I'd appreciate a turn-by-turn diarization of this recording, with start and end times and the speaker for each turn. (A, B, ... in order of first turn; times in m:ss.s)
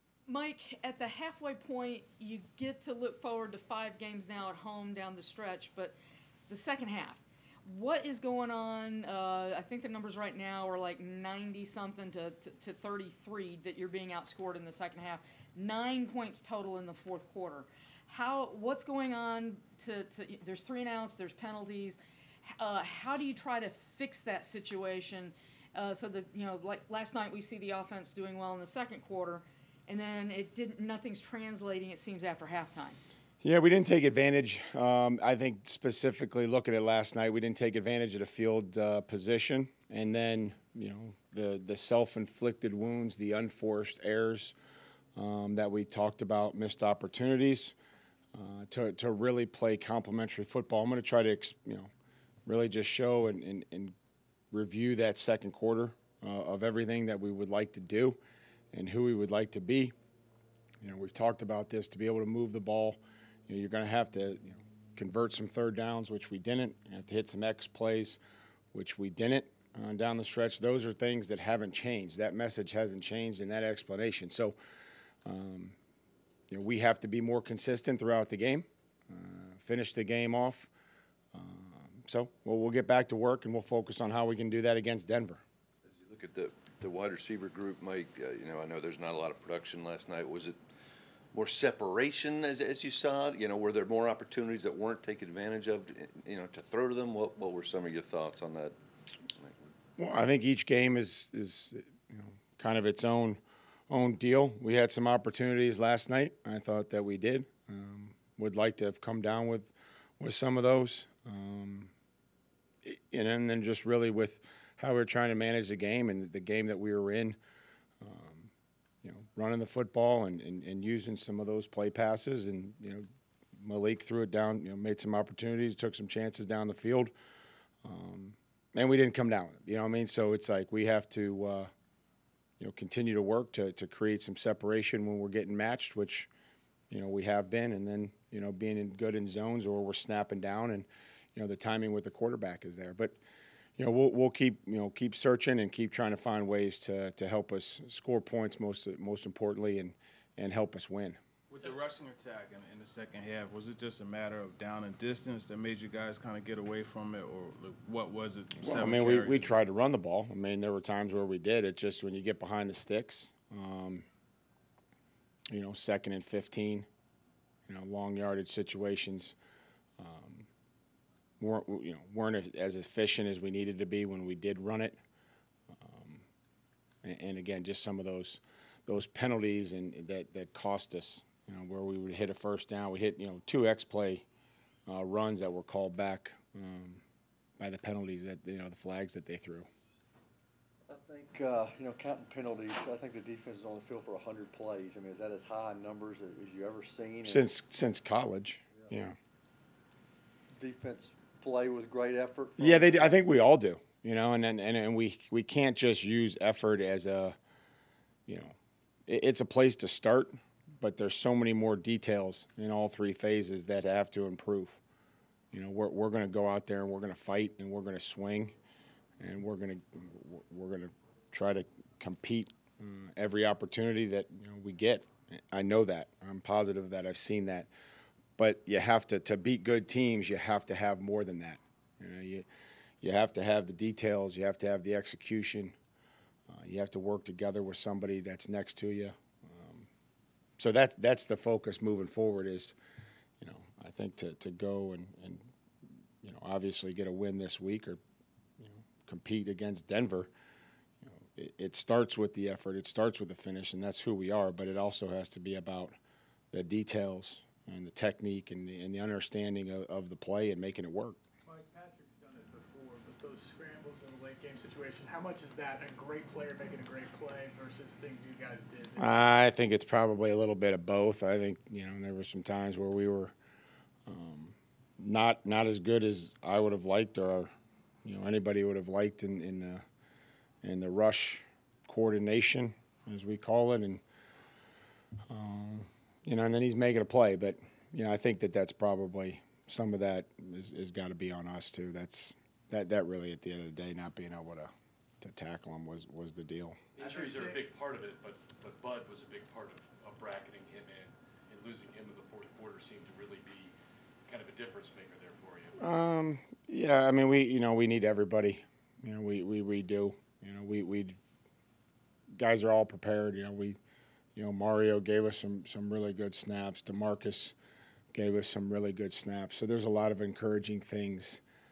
0:00.3-0:06.0 A
0:06.5-0:33.0 A
0:33.4-0:44.6 B
0:45.2-0:47.8 B
0:48.3-0:51.9 B
0:52.5-0:54.0 B
0:54.5-0:58.2 B
0:58.7-0:59.9 B
1:00.8-1:08.2 B
1:08.7-1:14.6 B
1:15.2-1:15.8 B
1:16.5-1:20.7 B
1:21.3-1:25.4 B
1:25.8-1:30.6 C
1:31.3-1:38.8 C
1:39.4-1:39.7 C
1:40.0-1:51.9 B
1:52.8-1:57.4 B
1:58.0-1:58.5 B
1:59.0-2:03.1 B
2:03.6-2:07.1 B
2:07.8-2:11.7 B
2:12.6-2:16.3 B
2:16.9-2:23.2 B
2:23.8-2:31.2 B
2:31.5-2:39.5 D
2:38.6-2:44.1 B
2:45.5-2:46.9 B
2:47.7-2:49.4 B
2:50.0-2:50.5 B
2:51.4-2:55.0 B
2:55.7-2:56.2 B
2:57.0-3:04.3 B
3:04.9-3:07.0 B
3:07.6-3:09.7 B
3:10.9-3:17.5 E
3:17.2-3:19.2 B
3:20.6-3:23.1 E
3:22.6-3:27.4 B
3:28.3-3:28.6 B
3:29.1-3:34.8 B
3:35.5-3:38.6 B
3:39.2-3:47.7 B
3:48.4-3:52.5 B
3:53.0-3:55.8 B
3:56.5-3:59.9 B
4:00.6-4:02.8 B
4:03.4-4:05.4 B
4:06.2-4:08.0 B
4:08.6-4:10.3 B
4:11.0-4:15.9 B
4:16.5-4:21.2 B
4:21.5-4:29.1 F
4:29.0-4:33.3 B
4:34.1-4:37.5 B
4:38.0-4:39.8 B
4:40.6-4:44.0 B
4:45.3-4:56.8 B
4:57.0-5:03.7 G
4:57.0-4:57.6 F
5:04.3-5:05.8 G
5:05.8-5:11.2 B
5:12.4-5:13.8 B
5:14.4-5:17.6 B
5:18.1-5:21.4 B